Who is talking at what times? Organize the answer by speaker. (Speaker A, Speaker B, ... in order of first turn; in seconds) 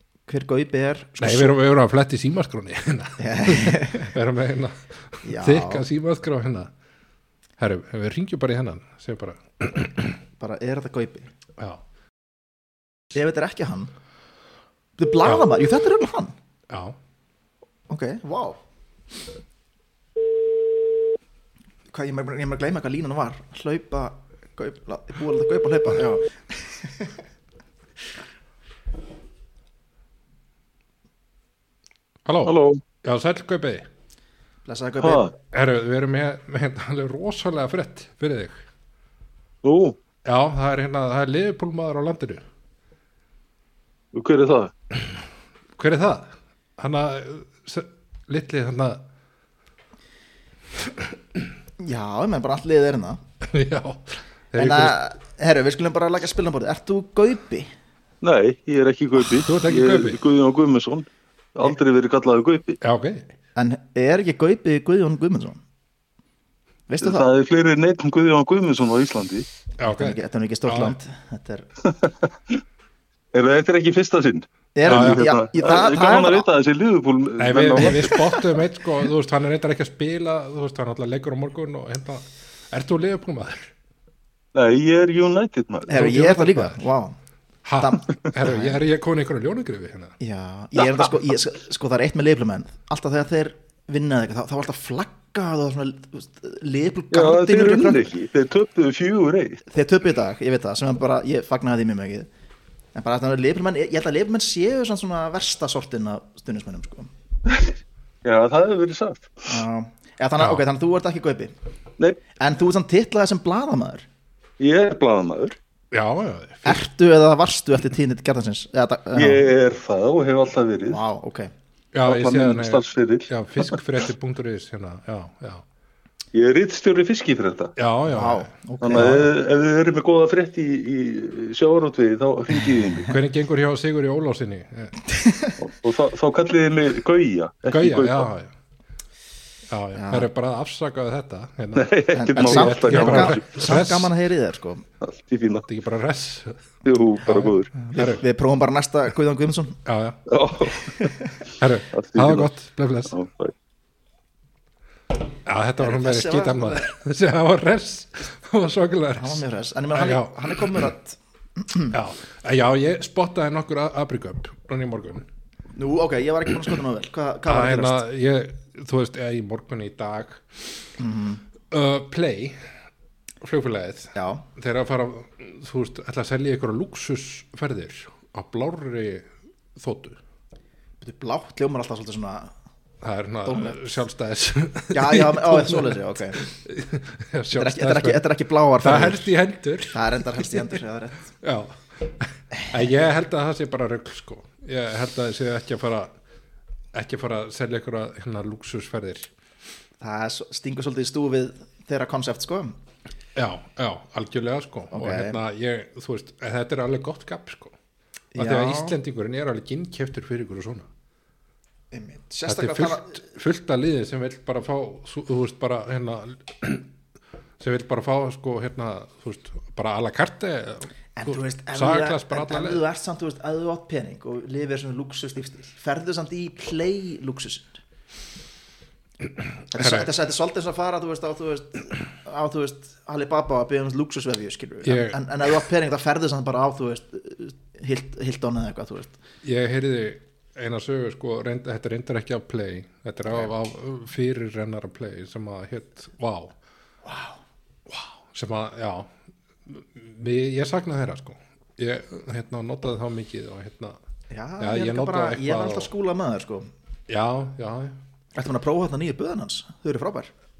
Speaker A: 0.3-1.6, 3.2-4.1, 5.2-5.8, 10.4-11.3, 13.1-13.9, 15.0-16.3, 17.9-18.6, 21.9-27.2, 34.6-35.3, 51.8-53.2, 54.5-57.7, 63.5-65.6, 66.9-67.3, 69.8-71.7, 74.7-76.5, 77.8-78.4, 85.9-87.2, 87.8-88.8, 90.2-98.1, 99.7-102.3, 102.9-107.1, 109.5-111.5, 112.4-114.0, 116.6-119.5, 120.9-121.5, 128.1-129.3, 135.1-135.6, 139.9-140.3, 142.1-144.8, 147.7-149.8, 150.9-151.3, 155.8-156.9, 159.1-161.9, 165.7-168.0, 171.0-171.4, 174.1-174.4, 181.0-182.5, 183.4-183.8, 184.9-186.5, 187.5-189.3, 189.9-191.3, 200.0-202.8, 204.9-205.4, 208.3-209.0, 211.9-213.2, 221.2-227.8, 229.7-239.2, 247.0-247.4, 254.3-256.7, 258.3-260.3
Speaker B: 1.2-6.7, 7.6-10.2, 16.7-17.0, 32.2-33.9, 35.5-38.6, 40.2-42.4, 45.8-49.0, 53.4-55.0, 59.3-60.2, 62.8-63.3, 69.8-71.0, 74.8-75.3, 77.4-83.7, 85.9-86.9, 87.6-90.2, 110.4-110.6, 115.9-116.8, 121.9-125.6, 127.8-129.2, 133.0-135.0, 137.6-138.5, 139.7-144.1, 145.6-146.6, 147.3-148.2, 149.8-150.2, 151.6-153.1, 155.4-160.8, 161.9-165.3, 167.5-170.8, 171.7-172.6, 173.4-180.2, 183.0-188.3, 188.8-190.8, 191.4-196.1, 196.9-199.3, 203.3-207.7, 208.3-210.9, 212.4-216.9, 217.6-222.8, 229.7-230.1, 234.8-235.2, 239.4-246.5, 247.9-249.1, 249.7-254.0, 254.6-255.9, 257.1-258.0
Speaker C: 32.4-32.8, 35.0-35.3, 39.6-40.0, 44.1-44.7, 58.2-62.8, 67.0-69.5, 71.8-72.1, 73.3-78.4, 84.5-85.9, 97.1-99.6, 108.2-109.4, 114.6-115.5, 119.1-121.0, 122.0-123.8, 126.3-127.8, 128.8-133.2, 135.6-138.3, 141.8-143.4, 145.0-145.7, 146.8-147.7, 150.3-151.1, 151.9-152.5, 153.1-153.5